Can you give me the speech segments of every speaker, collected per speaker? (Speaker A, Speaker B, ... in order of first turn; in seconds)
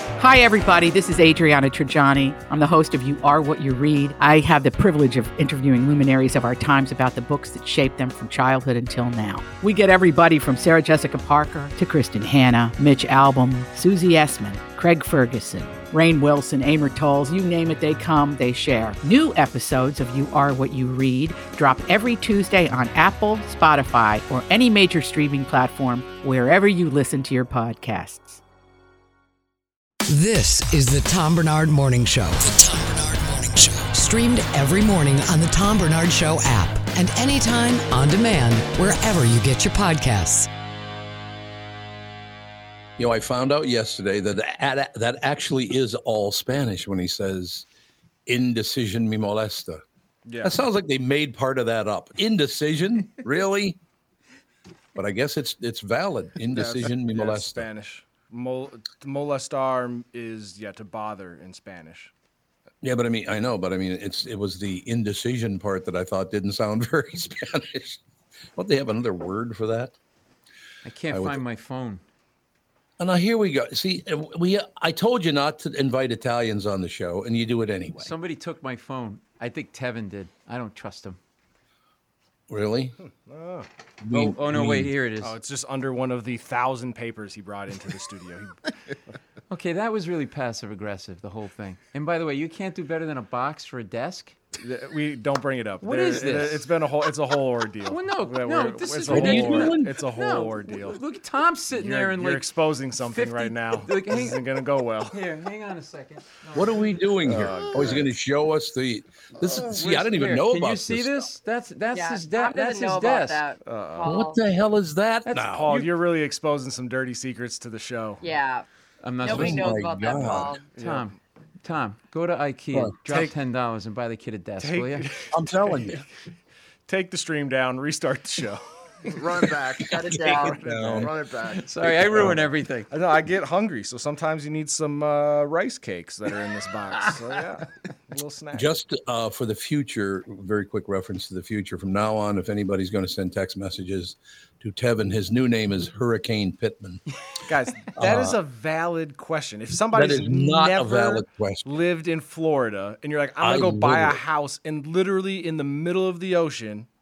Speaker A: 0.2-28.4
Speaker B: 30.1-40.5
Speaker C: 43.0-47.6, 48.3-49.8, 50.4-53.8, 55.0-57.7, 62.8-68.0, 68.6-69.9, 71.1-71.4, 73.0-78.1, 82.5-83.0, 84.0-84.9, 99.1-100.0, 106.5-111.3, 114.0-115.7, 119.2-120.6, 125.3-126.0, 130.1-131.1, 138.5-147.0, 148.0-148.3, 149.9-151.7, 153.4-154.2
Speaker D: 50.3-50.6, 56.5-62.1, 83.2-83.7, 85.2-88.6, 94.6-101.0, 101.7-105.2, 107.2-108.1, 113.6-114.1, 115.4-118.2, 120.7-121.1, 123.1-123.3, 124.6-126.0, 126.9-128.7, 132.0-138.7, 147.5-156.9
Speaker E: 70.8-72.0, 78.0-81.2, 84.1-85.3, 89.5-94.4, 95.8-96.6, 97.9-104.4, 105.0-106.9, 109.6-113.4, 115.2-115.9, 119.0-119.7, 120.8-125.1, 131.5-132.9
Speaker F: 111.9-114.4, 118.2-118.7, 119.2-120.7, 130.1-130.6
Speaker G: 129.1-131.7